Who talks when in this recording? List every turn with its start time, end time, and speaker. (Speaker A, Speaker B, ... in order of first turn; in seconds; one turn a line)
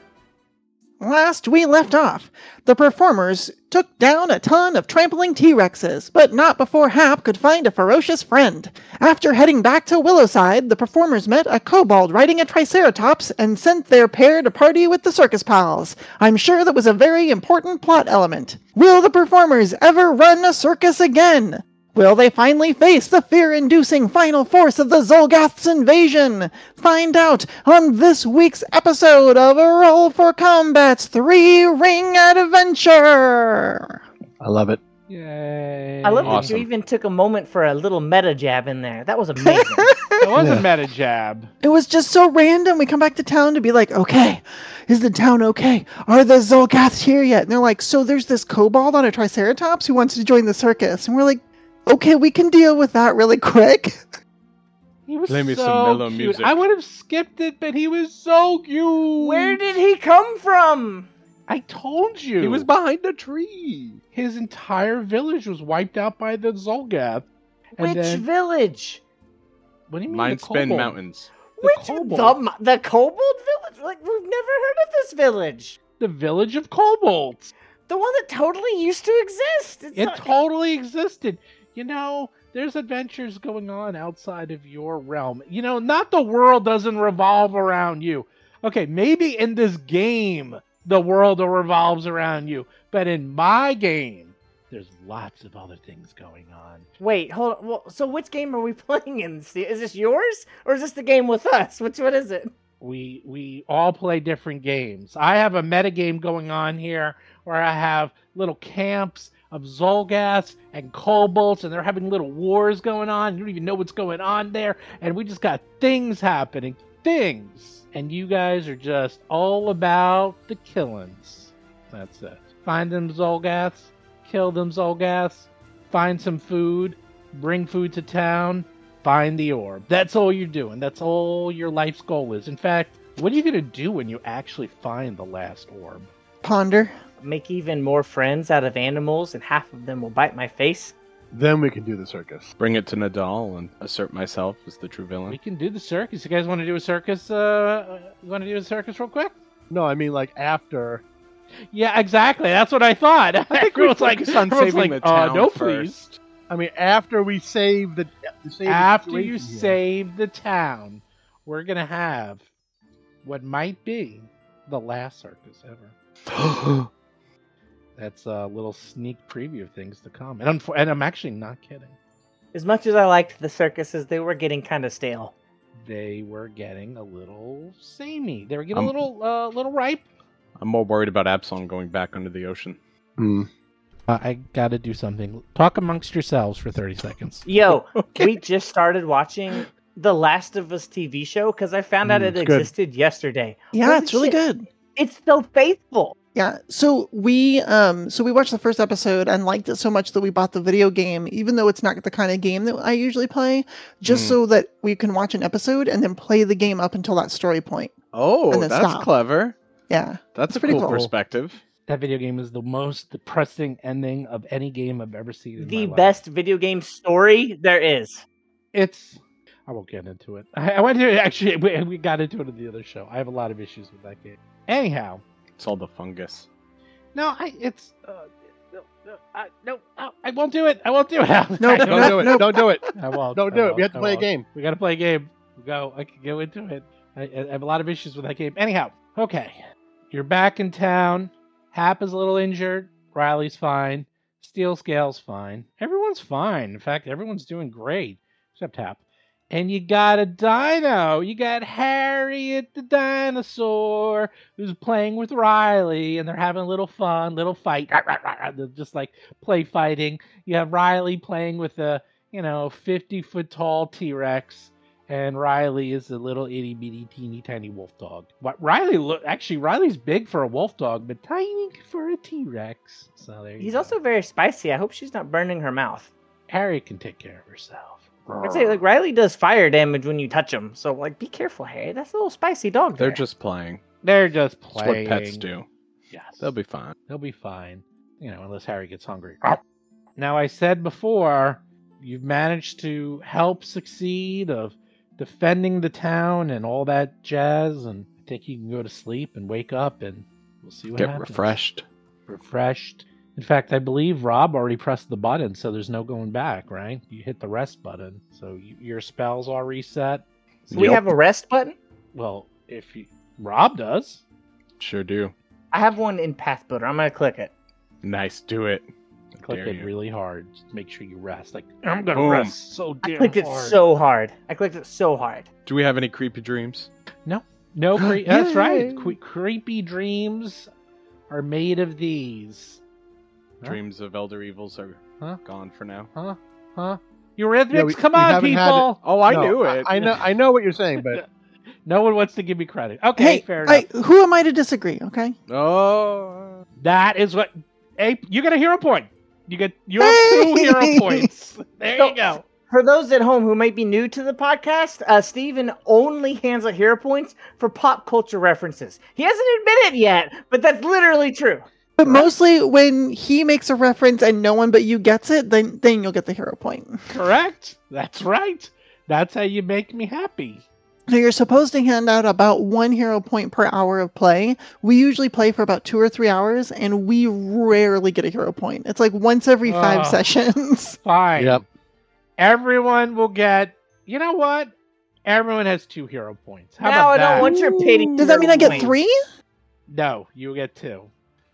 Speaker A: 1.0-34.0
Speaker B: 34.4-34.8
Speaker C: 35.1-36.6
Speaker D: 36.0-39.9
Speaker E: 36.2-36.7
Speaker A: 39.4-40.3
Speaker C: 40.2-41.5
Speaker B: 40.3-40.7
Speaker A: 41.6-54.0
Speaker C: 55.1-59.6
Speaker E: 55.3-56.5
Speaker D: 59.2-61.1
Speaker C: 61.5-62.7
Speaker E: 62.4-64.0
Speaker C: 64.1-67.2
Speaker C: 67.8-68.2
Speaker D: 67.8-69.0
Speaker C: 69.9-71.0
Speaker E: 70.1-71.3
Speaker D: 71.6-75.8
Speaker C: 71.6-72.4
Speaker C: 76.0-77.5
Speaker D: 77.9-80.3
Speaker C: 79.9-96.9
Speaker D: 97.0-102.5
Speaker C: 102.8-136.1
Speaker A: 136.4-136.9
Speaker D: 137.2-140.9
Speaker B: 141.3-142.5
Speaker E: 142.6-145.4
Speaker C: 145.3-149.3
Speaker B: 149.7-151.0
Speaker C: 151.7-156.1
Speaker E: 153.5-156.1
Speaker B: 156.5-159.8
Speaker C: 158.6-162.4
Speaker C: 163.2-165.9
Speaker E: 166.3-166.9
Speaker C: 168.0-171.9
Speaker D: 172.5-175.3
Speaker C: 175.8-180.0
Speaker E: 180.6-182.8
Speaker B: 183.2-183.5
Speaker C: 184.1-188.3
Speaker D: 187.4-194.4
Speaker B: 192.0-192.7
Speaker A: 193.7-194.7
Speaker D: 194.9-196.2
Speaker A: 196.3-207.9
Speaker E: 204.1-204.4
Speaker E: 208.1-209.6
Speaker A: 208.5-209.1
Speaker A: 209.9-211.1
Speaker E: 210.3-211.6
Speaker C: 211.9-216.2
Speaker D: 215.6-218.2
Speaker C: 218.7-225.2
Speaker E: 225.6-226.5
Speaker C: 227.1-273.9
Speaker A: 231.6-232.8
Speaker B: 231.8-234.4
Speaker D: 273.6-276.1
Speaker C: 276.5-278.8
Speaker D: 278.4-283.2
Speaker E: 283.0-283.8
Speaker C: 284.0-285.5
Speaker E: 284.7-285.7
Speaker C: 286.1-286.5
Speaker E: 286.4-286.9
Speaker C: 287.1-289.6
Speaker C: 290.2-301.6
Speaker E: 301.0-301.8
Speaker C: 302.3-310.2
Speaker E: 310.7-311.0
Speaker D: 310.7-311.8
Speaker C: 312.1-314.2
Speaker E: 314.8-315.3
Speaker D: 315.7-317.5
Speaker E: 318.0-318.9
Speaker E: 319.4-319.9
Speaker C: 319.4-323.8
Speaker E: 322.1-322.5
Speaker D: 323.1-325.5
Speaker E: 325.6-326.9
Speaker C: 327.2-330.7
Speaker E: 327.9-329.1
Speaker C: 331.3-332.8
Speaker E: 333.6-336.1
Speaker C: 336.1-339.0
Speaker B: 337.7-341.2
Speaker E: 339.0-340.2
Speaker C: 341.0-341.2
Speaker C: 341.8-343.9
Speaker A: 343.1-345.4
Speaker E: 345.5-346.6
Speaker C: 346.8-352.4
Speaker A: 350.0-351.2
Speaker D: 352.0-361.6
Speaker A: 362.0-367.0
Speaker C: 367.1-370.6
Speaker A: 371.1-381.0
Speaker C: 379.6-380.2
Speaker C: 381.0-381.6
Speaker B: 381.4-381.6
Speaker C: 382.4-384.7
Speaker C: 385.2-387.5
Speaker D: 386.8-388.9
Speaker E: 387.4-388.8
Speaker A: 388.1-389.1
Speaker C: 389.9-391.1